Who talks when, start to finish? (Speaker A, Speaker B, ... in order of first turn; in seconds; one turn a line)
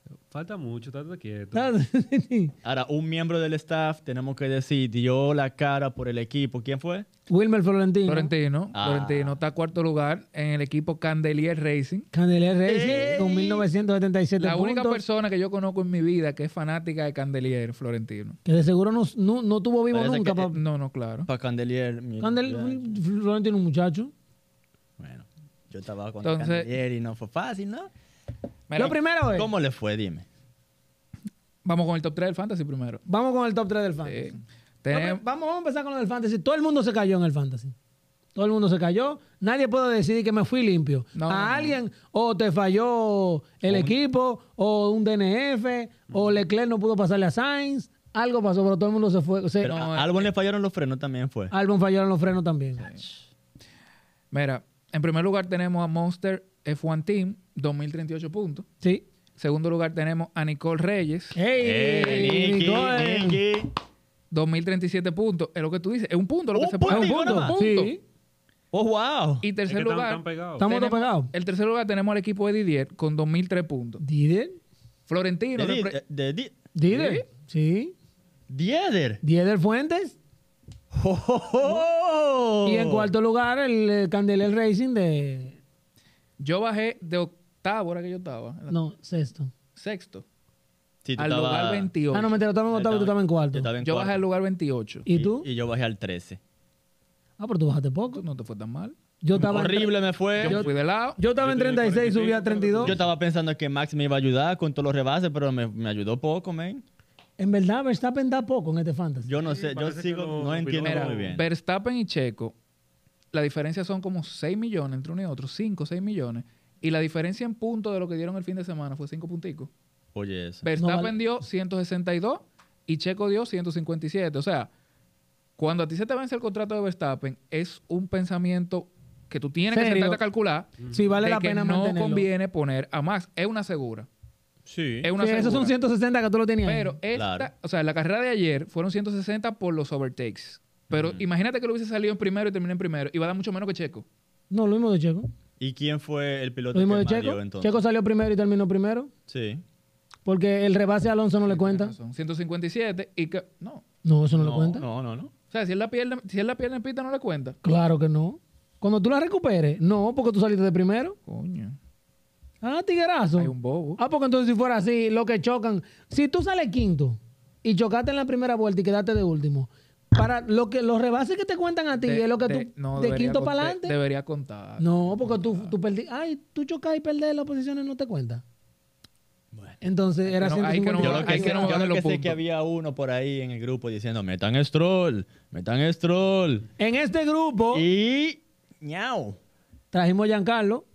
Speaker A: 0.3-1.7
Speaker B: 1.5-2.5
Speaker C: 2.6-7.0
Speaker B: 7.3-8.3
Speaker D: 8.1-12.1
Speaker C: 8.7-9.4
Speaker B: 12.1-15.0
Speaker C: 12.7-13.7
Speaker D: 14.4-18.4
Speaker B: 18.4-20.6
Speaker C: 19.9-20.6
Speaker D: 20.5-21.3
Speaker C: 21.2-22.9
Speaker B: 22.2-24.1
Speaker C: 25.0-27.9
Speaker D: 26.2-26.7
Speaker D: 28.7-29.0
Speaker B: 28.8-29.5
Speaker C: 29.3-30.2
Speaker D: 31.6-33.0
Speaker B: 33.1-34.4
Speaker D: 34.0-35.2
Speaker B: 34.9-37.7
Speaker B: 38.3-49.7
Speaker D: 41.1-41.8
Speaker C: 43.6-44.0
Speaker D: 49.6-50.3
Speaker C: 49.7-51.5
Speaker B: 51.5-52.9
Speaker D: 54.3-58.6
Speaker D: 59.4-61.4
Speaker B: 61.3-63.4
Speaker C: 61.6-63.7
Speaker D: 61.9-62.3
Speaker D: 64.3-67.9
Speaker C: 66.5-67.6
Speaker B: 66.9-68.0
Speaker C: 68.7-69.4
Speaker D: 69.4-74.0
Speaker A: 69.7-70.7
Speaker B: 70.6-71.3
Speaker B: 74.0-74.6
Speaker D: 75.1-76.0
Speaker C: 75.5-76.6
Speaker B: 76.7-77.9
Speaker D: 76.9-77.2
Speaker C: 78.5-79.2
Speaker B: 79.2-80.2
Speaker C: 80.9-83.1
Speaker B: 82.6-85.6
Speaker D: 86.4-88.8
Speaker B: 88.7-89.5
Speaker D: 89.7-90.2
Speaker C: 91.0-91.9
Speaker D: 91.2-92.3
Speaker B: 92.1-93.7
Speaker C: 92.7-94.2
Speaker D: 93.8-95.1
Speaker B: 95.1-95.5
Speaker C: 95.1-96.4
Speaker B: 97.4-98.2
Speaker D: 98.1-99.0
Speaker B: 99.2-103.0
Speaker C: 99.3-100.7
Speaker D: 100.4-101.2
Speaker A: 101.3-103.1
Speaker C: 102.8-106.8
Speaker B: 107.4-109.3
Speaker C: 109.2-111.5
Speaker A: 109.4-111.3
Speaker D: 110.8-112.5
Speaker D: 113.3-119.7
Speaker C: 120.1-120.7
Speaker D: 120.6-124.7
Speaker B: 120.8-121.2
Speaker D: 125.6-134.1
Speaker B: 129.7-130.2
Speaker B: 130.9-132.3
Speaker C: 134.6-135.1
Speaker D: 135.0-135.7
Speaker B: 135.2-136.9
Speaker D: 136.6-144.1
Speaker C: 137.1-137.5
Speaker C: 140.9-141.2
Speaker B: 144.5-145.3
Speaker C: 145.6-147.8
Speaker B: 146.7-149.1
Speaker C: 149.3-149.6
Speaker B: 150.2-151.9
Speaker D: 151.5-153.8
Speaker B: 154.0-154.8
Speaker C: 154.4-155.3
Speaker D: 155.5-157.6
Speaker B: 157.6-161.2
Speaker D: 161.3-161.8
Speaker B: 162.6-173.9
Speaker D: 163.3-164.0
Speaker D: 172.1-175.7
Speaker B: 174.8-178.4
Speaker C: 179.5-179.8
Speaker B: 179.8-181.8
Speaker D: 180.2-182.3
Speaker C: 180.9-186.6
Speaker B: 186.8-187.8
Speaker C: 187.7-189.4
Speaker B: 189.9-190.9